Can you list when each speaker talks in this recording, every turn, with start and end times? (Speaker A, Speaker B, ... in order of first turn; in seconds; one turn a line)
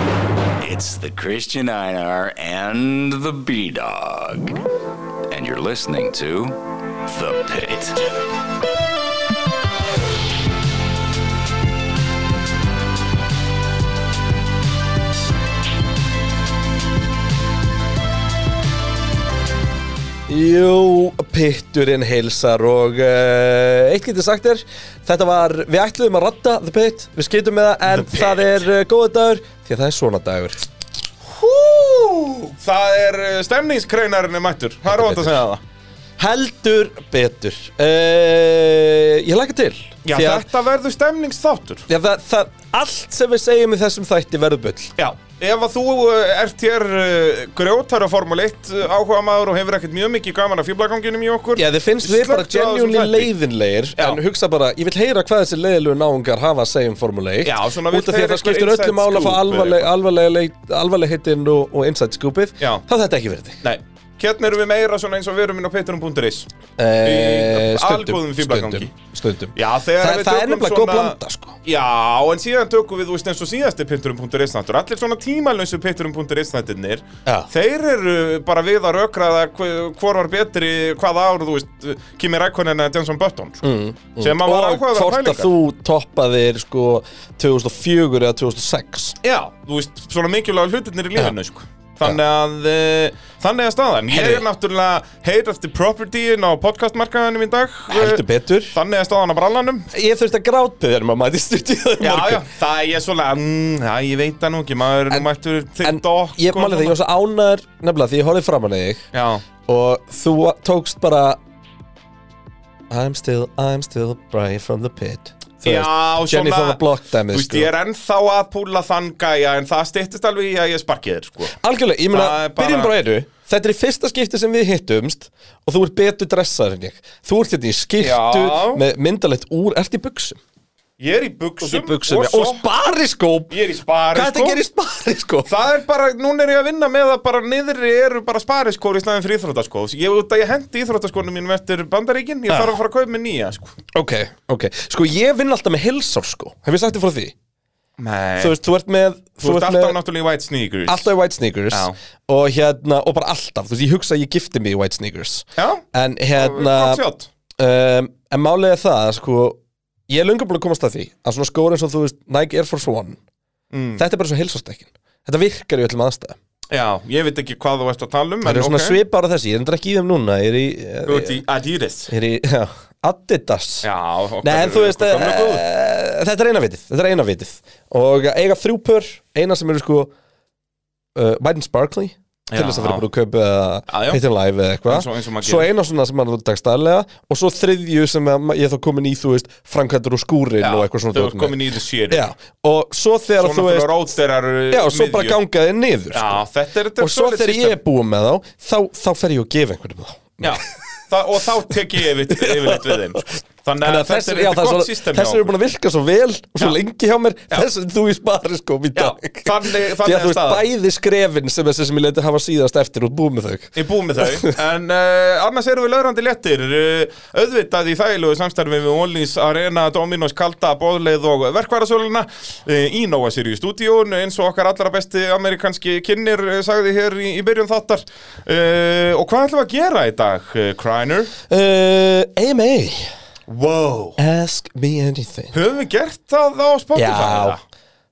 Speaker A: 0.6-4.6
Speaker A: 5.3-8.1
Speaker B: 20.3-30.6
Speaker C: 27.9-28.6
Speaker C: 31.2-35.6
Speaker B: 34.9-35.4
Speaker B: 36.2-40.5
Speaker C: 40.0-41.9
Speaker B: 41.9-44.9
Speaker C: 45.0-53.3
Speaker B: 51.6-63.6
Speaker C: 57.4-59.9
Speaker C: 63.6-66.5
Speaker B: 66.8-71.6
Speaker C: 67.0-68.9
Speaker C: 69.5-83.6
Speaker B: 83.6-89.2
Speaker C: 84.2-85.5
Speaker C: 89.2-99.8
Speaker B: 94.1-94.4
Speaker B: 97.9-98.8
Speaker B: 99.9-102.4
Speaker C: 102.0-107.0
Speaker B: 105.8-109.0
Speaker C: 109.1-109.4
Speaker B: 109.7-111.4
Speaker B: 112.9-117.7
Speaker C: 115.6-121.5
Speaker B: 121.6-130.4
Speaker C: 122.1-122.9
Speaker C: 128.0-128.8
Speaker C: 131.0-132.6
Speaker B: 131.6-133.5
Speaker C: 133.5-134.6
Speaker B: 134.1-135.5
Speaker C: 135.4-143.7
Speaker B: 143.9-147.3
Speaker C: 148.0-148.6
Speaker B: 148.4-150.0
Speaker C: 149.4-151.1
Speaker B: 150.9-157.0
Speaker C: 155.6-155.8
Speaker C: 156.3-157.3
Speaker B: 157.6-163.2
Speaker C: 163.7-164.0
Speaker B: 164.0-166.3
Speaker C: 166.7-169.0
Speaker B: 168.4-171.4
Speaker C: 171.1-172.1
Speaker B: 172.1-173.9
Speaker C: 173.8-175.6
Speaker B: 174.4-180.1
Speaker B: 181.1-191.6
Speaker C: 182.5-183.0
Speaker C: 183.9-184.2
Speaker C: 184.9-185.7
Speaker C: 190.6-192.3
Speaker B: 192.1-193.9
Speaker C: 193.4-195.3
Speaker B: 194.7-196.4
Speaker C: 196.1-197.8
Speaker B: 197.0-200.6
Speaker C: 200.4-205.5
Speaker B: 202.3-214.6
Speaker C: 208.9-210.6
Speaker C: 213.7-231.3
Speaker B: 231.5-233.1
Speaker C: 233.5-234.2
Speaker B: 234.2-235.5
Speaker C: 235.5-237.6
Speaker B: 236.9-237.6